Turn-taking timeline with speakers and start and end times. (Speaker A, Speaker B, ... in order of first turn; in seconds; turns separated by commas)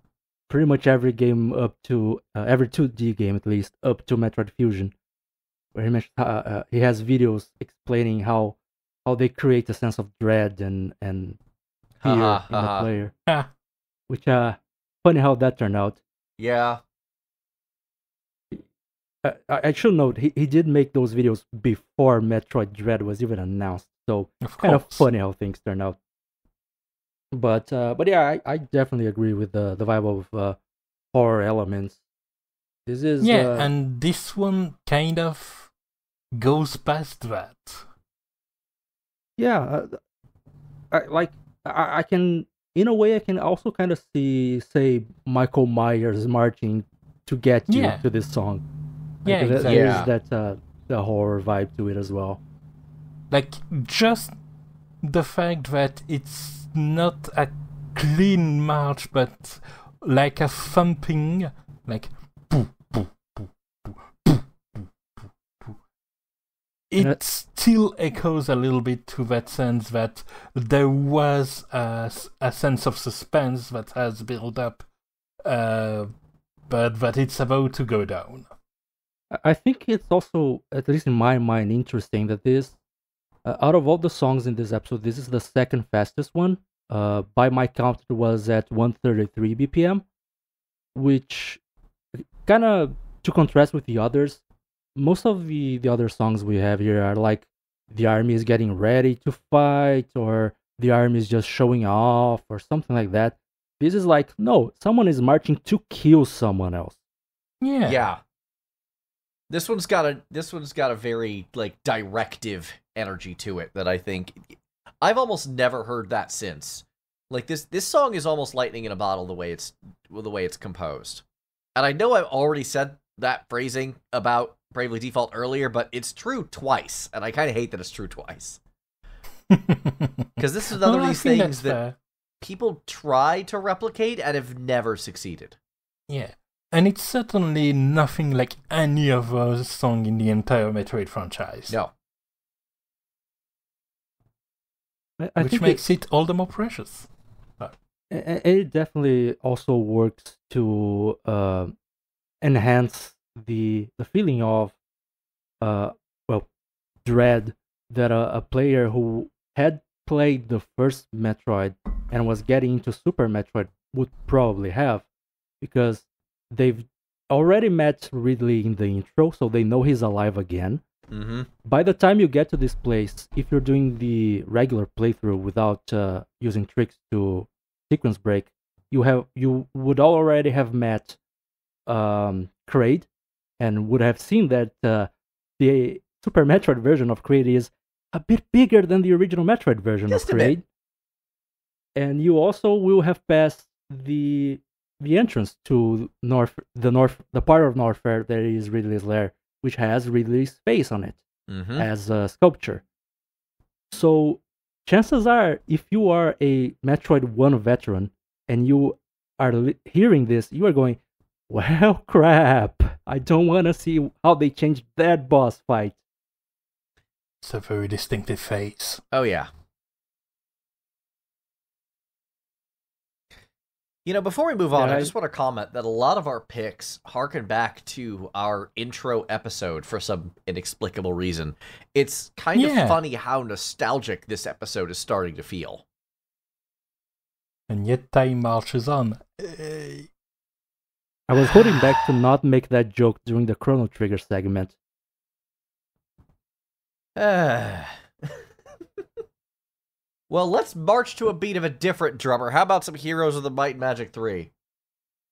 Speaker A: 0.5-4.9, Speaker A: 5.8-11.4, Speaker B: 12.0-12.9, Speaker A: 12.1-13.1, Speaker A: 14.1-16.0, Speaker B: 16.4-16.8, Speaker A: 19.2-26.0, Speaker C: 24.4-25.1, Speaker A: 27.3-30.6, Speaker A: 31.1-32.0, Speaker A: 32.9-33.7, Speaker C: 33.2-35.7, Speaker C: 36.4-37.9, Speaker A: 39.4-40.0, Speaker A: 40.9-48.6, Speaker C: 47.7-48.0, Speaker C: 49.2-50.1, Speaker A: 49.3-52.4, Speaker B: 49.6-50.1, Speaker C: 53.3-54.3, Speaker C: 55.0-64.9, Speaker C: 66.9-74.9, Speaker C: 75.4-76.1, Speaker C: 76.7-78.5, Speaker A: 79.3-82.8, Speaker A: 83.5-90.0, Speaker A: 91.0-91.6, Speaker A: 92.2-94.4, Speaker A: 95.0-107.0, Speaker C: 107.6-108.0, Speaker B: 107.9-108.2, Speaker B: 109.5-121.2, Speaker B: 121.8-128.6, Speaker C: 129.5-132.0, Speaker B: 130.4-131.8, Speaker B: 132.4-135.6, Speaker C: 136.1-141.8, Speaker A: 145.2-145.8, Speaker C: 145.4-147.1, Speaker A: 148.1-151.7, Speaker A: 152.4-154.8, Speaker A: 155.6-156.5, Speaker A: 157.1-165.1, Speaker A: 165.6-170.8, Speaker B: 171.1-171.5, Speaker A: 171.7-181.2, Speaker A: 181.9-183.1, Speaker A: 183.6-190.6, Speaker B: 190.1-190.6, Speaker A: 192.0-201.2, Speaker B: 201.5-201.9, Speaker A: 201.8-202.8, Speaker A: 203.9-216.0, Speaker C: 217.4-219.0, Speaker B: 219.1-219.5, Speaker B: 224.1-235.8, Speaker A: 224.7-225.1, Speaker C: 232.6-233.0, Speaker C: 237.7-240.1, Speaker A: 241.3-244.8, Speaker B: 247.2-248.0, Speaker B: 250.3-254.5